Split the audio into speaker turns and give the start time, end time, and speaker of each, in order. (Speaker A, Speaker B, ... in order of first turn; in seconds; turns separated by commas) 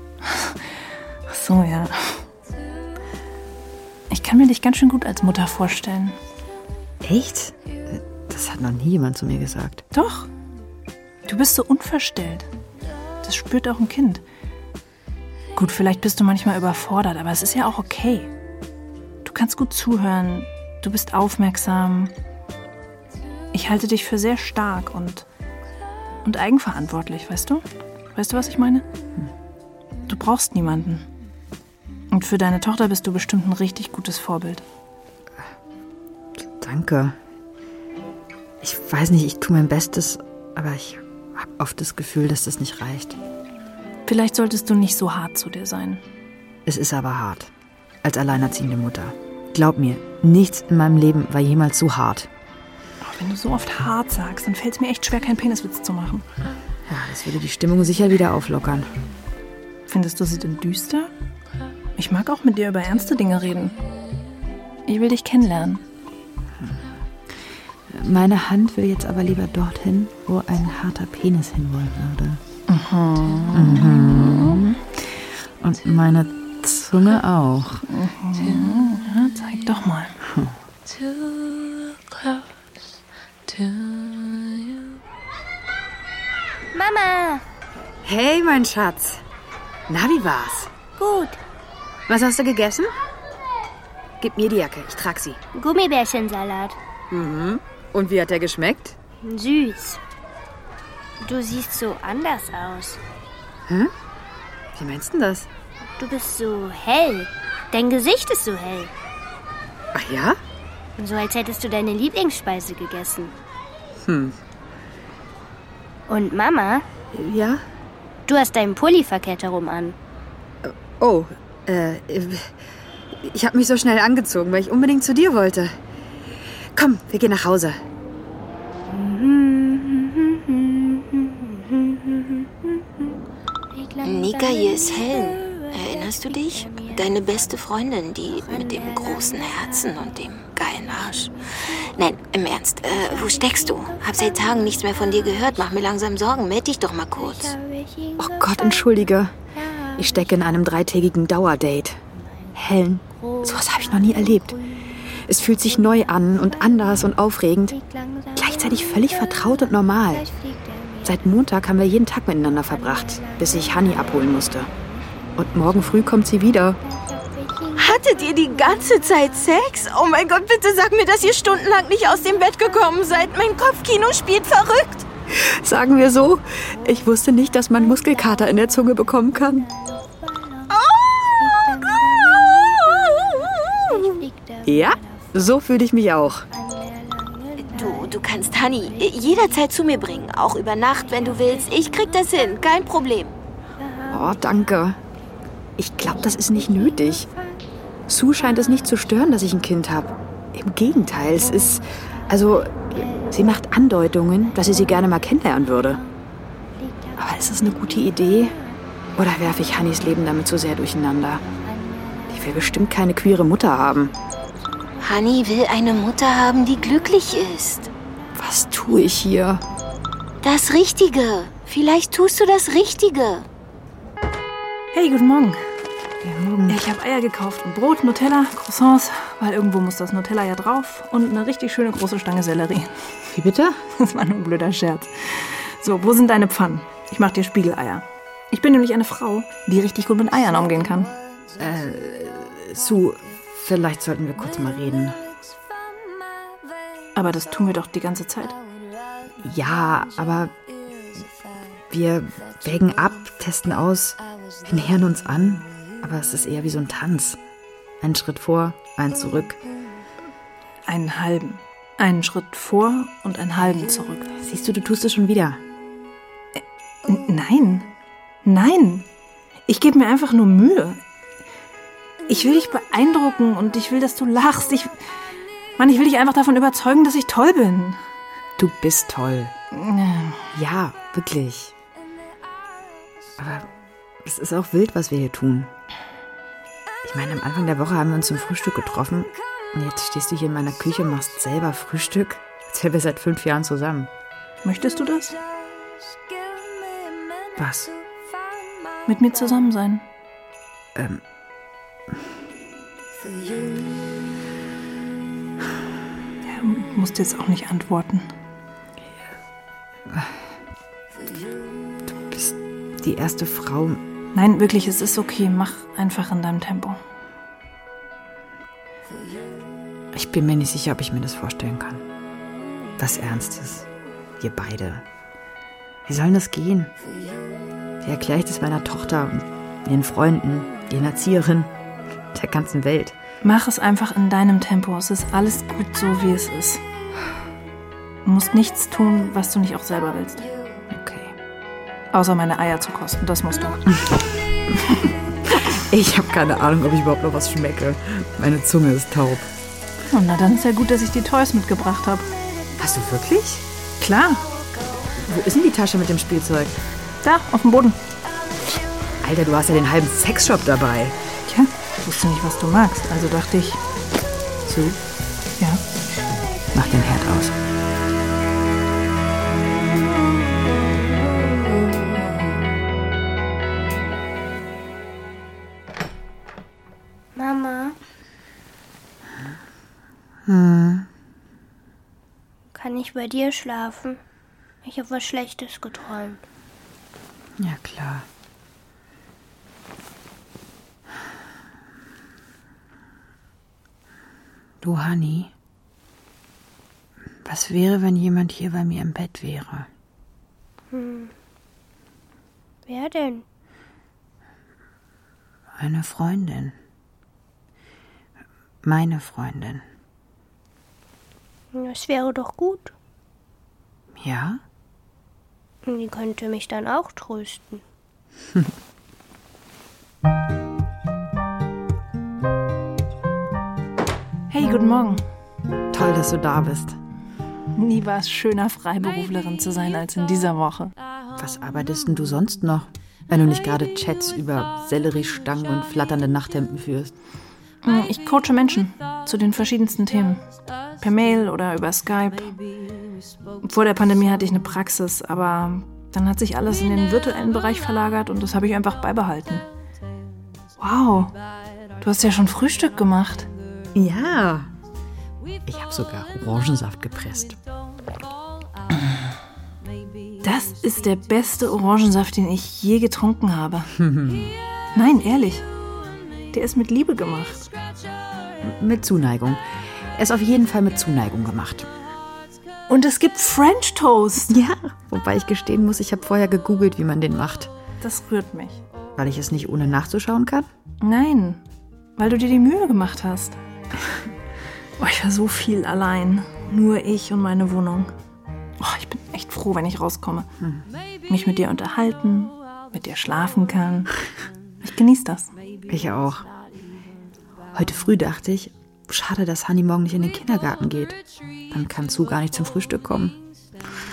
Speaker A: 0.2-0.6, Speaker A: 1.3-2.3, Speaker A: 4.1-6.2, Speaker B: 7.0-9.8, Speaker A: 9.9-10.3, Speaker A: 11.3-12.5, Speaker A: 13.2-14.2, Speaker A: 15.6-18.3, Speaker A: 19.2-22.1, Speaker A: 23.5-25.3, Speaker A: 26.2-28.9, Speaker A: 30.1-31.1, Speaker A: 32.1-34.6, Speaker B: 36.4-37.2, Speaker B: 38.6-43.2, Speaker A: 44.1-46.0, Speaker B: 46.7-47.5, Speaker B: 48.0-52.3, Speaker A: 53.0-56.3, Speaker B: 56.9-58.9, Speaker A: 59.9-61.1, Speaker A: 62.0-63.8, Speaker A: 64.9-65.8, Speaker B: 67.9-72.4, Speaker A: 72.7-74.2, Speaker B: 73.5-77.9, Speaker A: 77.9-80.2, Speaker B: 80.3-80.5, Speaker C: 86.7-87.4, Speaker B: 88.0-89.2, Speaker B: 89.9-90.7, Speaker C: 91.0-91.4, Speaker B: 92.1-92.9, Speaker B: 94.2-95.4, Speaker C: 95.5-96.8, Speaker B: 97.1-99.0, Speaker C: 99.2-100.0, Speaker C: 101.2-103.0, Speaker B: 103.7-103.9, Speaker B: 104.8-105.5, Speaker C: 106.0-108.9, Speaker B: 109.9-110.4, Speaker C: 111.0-113.3, Speaker B: 114.0-114.4, Speaker C: 116.1-116.9, Speaker B: 117.1-117.6, Speaker C: 118.3-120.0, Speaker B: 120.6-125.8, Speaker B: 126.7-127.8, Speaker C: 128.9-132.3, Speaker D: 134.0-147.6, Speaker B: 148.2-149.3, Speaker B: 149.9-152.0, Speaker B: 152.6-157.8, Speaker B: 158.3-160.3, Speaker B: 161.0-164.7, Speaker B: 165.3-166.8, Speaker D: 167.7-175.1, Speaker B: 175.3-179.7, Speaker D: 180.7-181.6, Speaker D: 182.4-184.1, Speaker B: 184.6-186.5, Speaker D: 187.6-193.3, Speaker B: 194.1-195.0, Speaker B: 195.8-197.3, Speaker B: 198.1-206.0, Speaker B: 207.2-208.6, Speaker B: 209.2-211.4, Speaker B: 212.3-214.1, Speaker D: 215.0-217.9, Speaker B: 218.4-219.6, Speaker D: 220.4-223.5, Speaker A: 224.9-225.6, Speaker B: 226.2-226.8, Speaker A: 226.7-233.1, Speaker B: 233.3-233.8, Speaker A: 233.9-241.1, Speaker B: 241.6-245.2, Speaker A: 247.2-248.6, Speaker B: 249.4-250.5, Speaker B: 251.9-257.4, Speaker B: 258.0-259.6, Speaker A: 260.9-264.3, Speaker B: 264.4-265.6, Speaker A: 266.6-267.9, Speaker A: 268.4-269.1, Speaker A: 269.7-271.0, Speaker A: 272.3-275.0, Speaker A: 275.8-278.0, Speaker B: 278.6-279.5, Speaker A: 279.7-280.5, Speaker B: 280.5-281.7, Speaker B: 283.4-283.7, Speaker B: 284.2-285.7, Speaker B: 287.0-294.1, Speaker A: 294.6-295.4, Speaker B: 297.6-297.9, Speaker A: 299.1-300.1, Speaker B: 300.9-301.2, Speaker A: 306.4-308.3, Speaker B: 310.1-310.4, Speaker B: 312.1-314.0, Speaker A: 314.3-317.0, Speaker B: 320.1-322.0, Speaker B: 323.0-323.9, Speaker B: 324.4-325.1, Speaker B: 326.1-326.9, Speaker B: 328.0-331.7, Speaker B: 332.3-333.2, Speaker A: 333.4-336.8, Speaker A: 338.2-340.4, Speaker B: 340.9-341.4, Speaker A: 342.1-344.0, Speaker B: 345.5-349.5, Speaker A: 350.1-352.3, Speaker B: 352.8-353.6, Speaker A: 354.0-354.4, Speaker B: 355.2-356.8, Speaker A: 357.2-358.0, Speaker B: 359.2-361.2, Speaker A: 361.5-363.8, Speaker B: 364.6-365.0, Speaker B: 366.7-367.6, Speaker C: 377.4-378.0, Speaker B: 380.5-381.1, Speaker C: 382.7-384.2, Speaker C: 384.8-386.4, Speaker B: 387.6-388.3, Speaker B: 394.8-395.5, Speaker B: 397.4-399.9, Speaker C: 400.9-401.3, Speaker C: 402.9-403.4, Speaker B: 405.8-406.8, Speaker B: 408.8-409.9, Speaker C: 411.7-412.9, Speaker B: 414.1-414.6, Speaker C: 415.9-417.8, Speaker A: 424.5-425.2, Speaker B: 425.9-427.0, Speaker A: 427.7-430.9, Speaker B: 431.4-437.1, Speaker A: 437.8-440.4, Speaker A: 441.0-442.6, Speaker A: 443.6-449.6, Speaker A: 450.8-451.4, Speaker A: 452.0-453.5, Speaker B: 453.9-454.7, Speaker B: 455.7-457.6, Speaker A: 460.4-463.9, Speaker B: 464.0-464.6, Speaker A: 464.9-465.7, Speaker A: 466.5-467.7, Speaker B: 468.6-471.9, Speaker A: 472.9-474.6, Speaker B: 474.5-477.7, Speaker A: 478.0-478.8, Speaker B: 479.2-480.7, Speaker A: 481.0-481.6, Speaker A: 482.2-483.6, Speaker A: 485.0-488.1, Speaker A: 488.8-490.5, Speaker B: 490.6-490.9, Speaker A: 491.3-494.1, Speaker A: 494.8-495.5, Speaker B: 495.9-496.5, Speaker B: 497.7-503.4